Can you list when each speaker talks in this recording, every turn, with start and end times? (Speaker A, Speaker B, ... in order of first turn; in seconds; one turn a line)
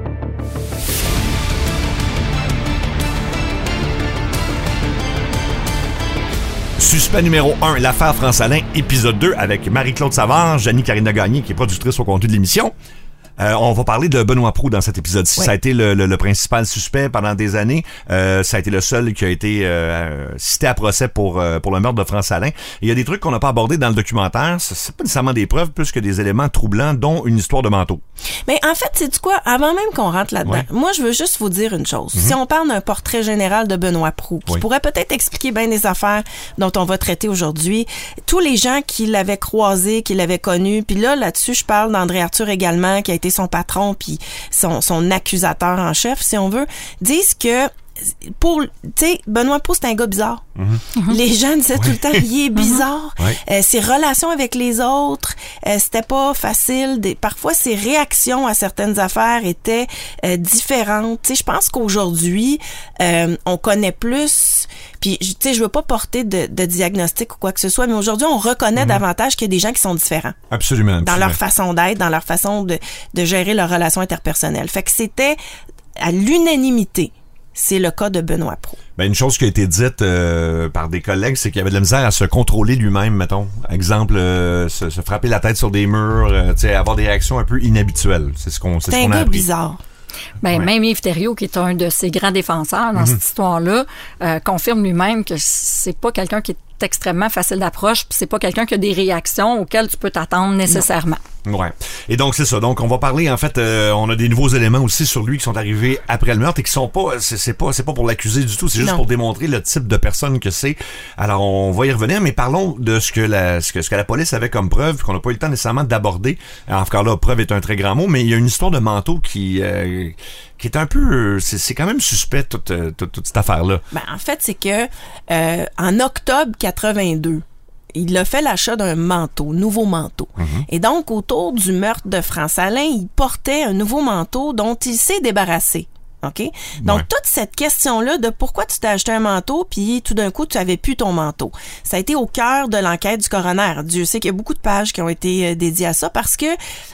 Speaker A: 6.8-12.7
Speaker A: 13.4-28.0
Speaker B: 28.5-47.7
Speaker B: 48.2-50.4
Speaker A: 50.6-50.8
Speaker B: 51.1-70.4
Speaker A: 51.8-52.2
Speaker C: 52.5-52.8
Speaker A: 68.8-69.0
Speaker A: 70.5-71.4
Speaker B: 71.0-75.4
Speaker B: 76.0-78.8
Speaker A: 79.0-89.5
Speaker B: 88.9-89.8
Speaker C: 90.4-101.2
Speaker A: 101.5-123.8
Speaker B: 123.9-146.6
Speaker A: 130.4-130.7
Speaker A: 136.8-137.1